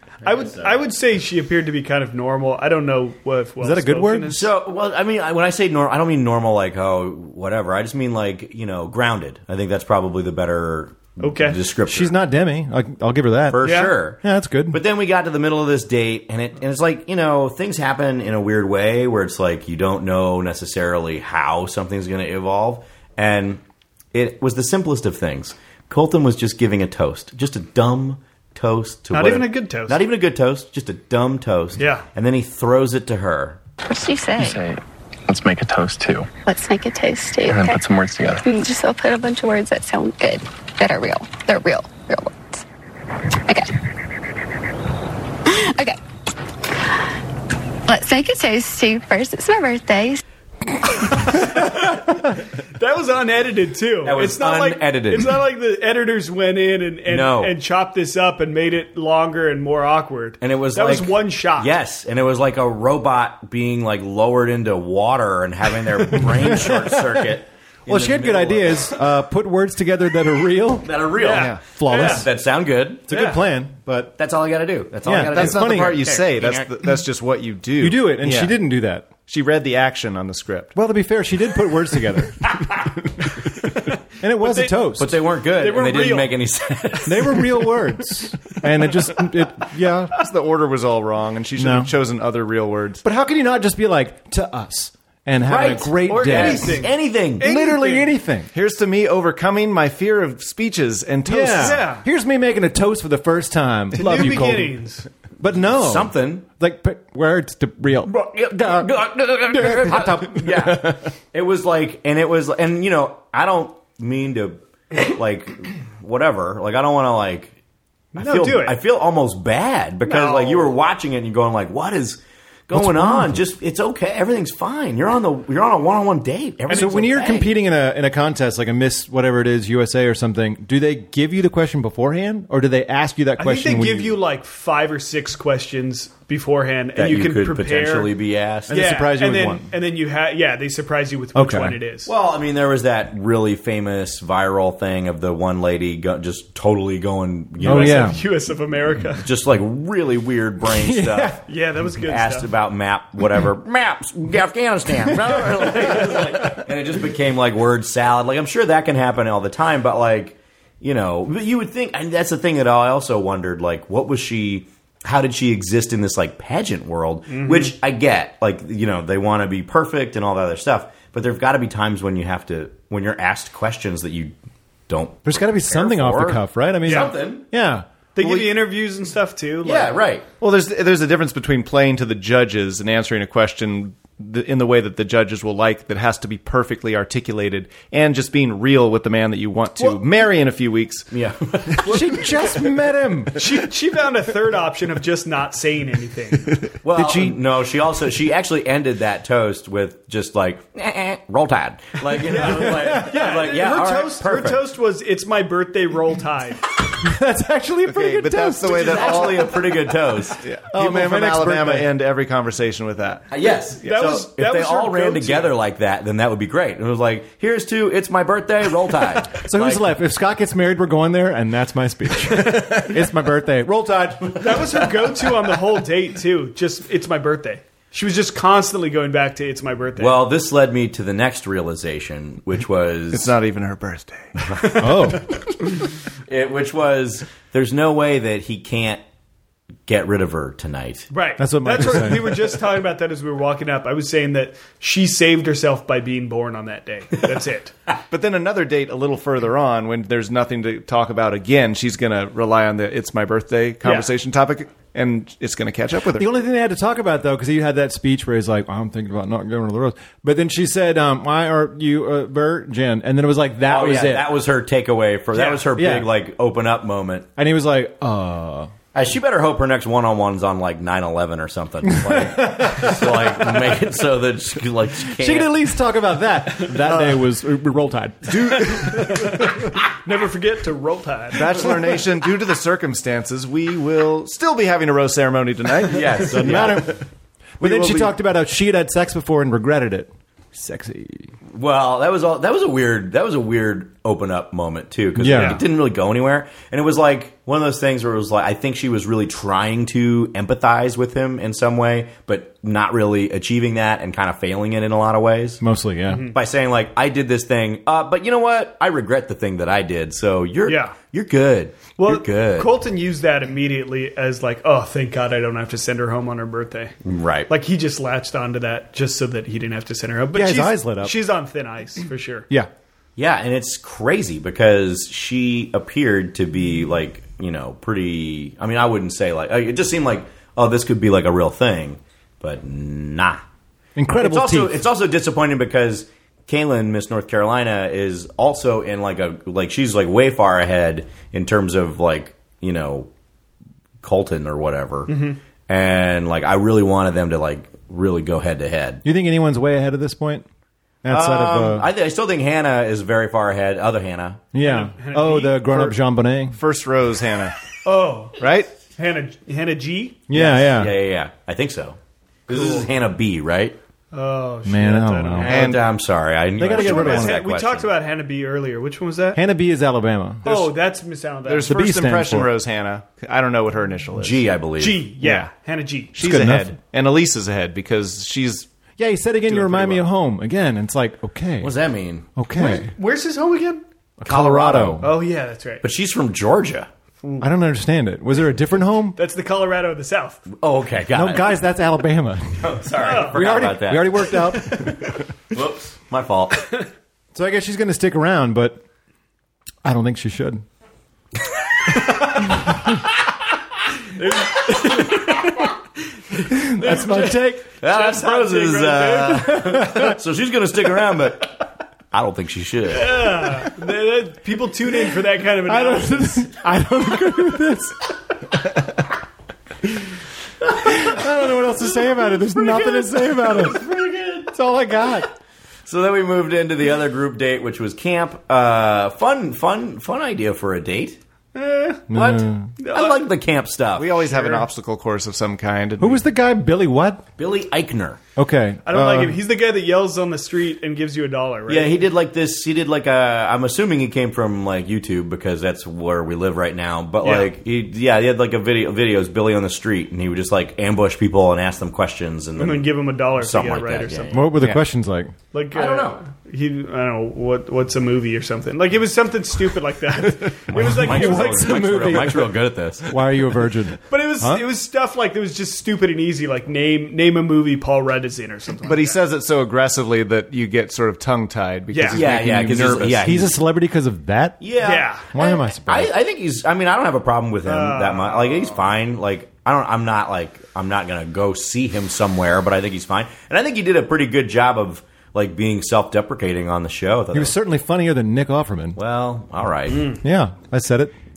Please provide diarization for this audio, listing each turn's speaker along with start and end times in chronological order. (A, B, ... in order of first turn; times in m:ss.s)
0:00.2-0:04.5 A
0:00.2-0:00.8 B
0:03.6-0:04.3 C
0:04.3-0:12.2 B
0:11.2-0:11.6 A
0:11.9-0:14.8 C
0:13.5-0:23.6 B
0:13.6-0:13.9 A
0:24.1-0:33.6 B
0:29.1-0:30.0 A
0:31.8-0:32.1 A
0:33.9-0:34.6 D
0:34.4-0:36.3 E
0:36.5-0:37.8 D
0:37.5-0:38.4 E
0:38.4-0:42.6 D
0:43.5-0:43.7 D
0:45.5-0:46.0 D
0:46.8-0:47.0 D
0:47.9-0:50.2 D
0:51.3-1:01.7 A
0:54.0-0:55.4 B
0:57.1-0:57.6 B
1:00.4-1:08.9 B
1:06.1-1:07.3 C
1:07.9-1:12.3 C
1:10.8-1:13.2 B
1:11.2-1:12.3 A
1:13.1-1:14.1 C
1:13.1-1:13.4 A
1:14.2-1:16.7 B
1:15.0-1:16.1 C
1:15.3-1:18.6 F
1:17.8-1:19.1 C
1:19.2-1:20.7 F
1:20.8-1:23.0 C
1:24.2-1:25.2 C
1:24.4-1:24.8 A
1:25.0-1:27.6 B
1:25.5-1:26.3 A
1:27.0-1:30.2 C
1:30.1-1:33.0 F
1:31.6-1:31.9 C
1:33.0-1:36.9 C
1:35.5-1:37.5 B
1:36.0-1:38.1 A
1:37.4-1:38.5 C
1:38.5-1:41.8 F
1:41.2-1:44.8 C
1:41.6-1:42.0 A
1:43.9-1:45.1 A
1:45.4-1:51.0 C
1:45.5-1:46.4 B
1:48.1-1:57.5 B
1:58.2-1:58.8 A
1:58.2-2:07.5 B
2:00.0-2:00.7 A
2:02.7-2:03.4 C
2:06.7-2:14.2 C
2:06.7-2:07.0 A
2:13.4-2:18.1 A
2:17.0-2:18.8 B
2:18.7-2:19.7 C
2:18.7-2:22.1 A
2:21.4-2:21.8 C
2:22.1-2:28.2 B
2:27.6-2:29.3 A
2:27.6-2:28.2 C
2:29.2-2:31.4 B
2:30.6-2:31.4 C
2:31.5-2:32.5 A
2:32.0-2:54.3 B
2:35.3-2:36.0 C
2:47.3-2:47.7 A
2:54.9-2:57.4 B
2:55.2-2:58.4 C
2:56.9-2:57.1 A
2:58.2-2:59.9 A
2:59.6-3:00.3 B
3:00.4-3:11.1 F
3:11.1-3:12.3 B
3:11.8-3:13.6 C
3:13.4-3:16.5 A
3:16.8-3:24.6 B
3:22.3-3:26.6 A
3:22.5-3:23.1 C
3:27.0-3:29.3 C
3:27.9-3:29.6 F
3:28.7-3:30.4 B
3:30.4-3:33.2 F
3:30.7-3:31.9 C
3:33.3-3:39.9 B
3:33.8-3:35.5 A
3:39.3-3:44.6 C
3:44.4-3:50.2 A
3:50.0-3:53.3 B
3:53.1-3:54.3 F
3:54.4-3:54.8 B
3:54.8-3:55.3 C
3:56.3-3:59.0 B
3:59.9-4:01.1 B
4:01.1-4:07.7 A
4:01.4-4:02.6 C
4:08.1-4:16.3 F
4:13.8-4:14.1 A
4:16.2-4:24.3 C
4:23.7-4:27.3 B
4:25.3-4:25.6 A
4:25.8-4:26.1 C
4:27.4-4:28.7 C
4:28.9-4:35.5 B
4:31.9-4:33.6 C
4:35.2-4:39.7 C
4:36.9-4:37.2 A
4:38.6-4:41.7 A
4:41.3-4:46.8 F
4:45.9-4:47.0 B
4:46.4-4:47.0 C
4:47.6-4:48.2 B
4:47.6-4:51.3 C
4:51.5-5:05.6 B
4:55.2-4:55.6 C
4:55.3-4:55.6 A
5:05.6-5:06.2 C
5:06.1-5:06.4 A
5:06.3-5:12.7 B
5:10.7-5:11.0 A
5:12.0-5:16.9 A
5:17.0-5:17.5 B
5:17.5-5:22.5 A
5:20.3-5:21.2 C
5:23.2-5:33.4 B
5:34.0-5:34.8 C
5:34.1-5:43.1 B
5:44.0-5:49.0 B
5:45.1-5:45.4 A
5:49.0-5:50.5 C
5:51.0-5:51.9 C
5:51.1-5:54.4 B
5:54.5-5:56.6 C
5:54.6-5:55.9 A
5:56.5-5:57.6 F
5:57.8-5:58.4 A
5:58.4-5:58.7 F
5:59.0-6:00.2 A
6:00.3-6:00.9 C
6:00.3-6:02.0 B
6:02.5-6:03.8 B
6:02.5-6:02.9 A
6:04.1-6:05.6 A
6:04.7-6:05.6 C
6:05.4-6:07.9 B
6:05.5-6:05.8 F
6:06.6-6:07.4 C
6:06.7-6:09.4 A
6:09.3-6:10.7 C
6:10.4-6:11.7 A
6:11.5-6:14.4 F
6:11.6-6:12.6 C
6:14.2-6:15.1 B
6:14.8-6:16.1 A
6:15.2-6:15.5 F
6:16.1-6:18.7 F
6:16.2-6:16.8 C
6:19.0-6:21.7 C
6:19.5-6:20.0 F
6:21.6-6:22.3 B
6:22.4-6:22.9 C
6:22.5-6:23.8 A
6:24.2-6:25.1 C
6:24.2-6:25.1 B
6:25.0-6:25.8 A
6:25.8-6:26.9 B
6:27.4-6:29.2 C
6:29.2-6:30.4 A
6:30.5-6:31.6 B
6:31.1-6:35.2 C
6:32.6-6:34.4 B
6:33.0-6:33.4 A
6:35.5-6:36.8 B
6:37.3-6:38.8 C
6:39.8-6:40.6 C
6:44.2-6:45.7 A
6:46.5-6:47.7 C
6:46.5-6:49.6 A
6:47.8-6:53.4 B
6:49.6-6:50.2 C
6:52.9-6:56.4 A
6:55.6-6:58.0 C
6:58.5-6:58.9 C
7:00.8-7:04.0 C
7:03.6-7:04.5 B
7:04.5-7:05.3 C
7:05.9-7:11.2 B
7:11.6-7:12.1 A
7:12.1-7:12.7 C
7:12.1-7:14.2 B
7:12.8-7:13.2 A
7:14.0-7:16.2 F
7:14.2-7:14.7 A
7:16.0-7:17.2 C
7:17.4-7:18.2 B
7:18.4-7:19.4 C
7:18.8-7:21.9 A
7:21.7-7:34.5 B
7:27.2-7:27.5 A
7:32.6-7:34.4 A
7:34.3-7:35.4 C
7:35.5-7:41.8 A
7:35.7-7:36.2 B
7:40.2-7:44.7 C
7:40.7-7:43.1 B
7:44.1-7:49.2 A
7:48.8-7:53.4 F
7:51.9-7:52.2 A
7:52.1-7:53.6 B
7:53.2-7:54.6 C
7:54.6-8:07.6 B
7:54.8-7:55.3 A
7:55.3-7:56.1 C
7:57.7-7:58.8 A
8:07.3-8:09.0 C
8:09.0-8:10.1 B
8:09.9-8:10.2 A
8:10.2-8:11.1 C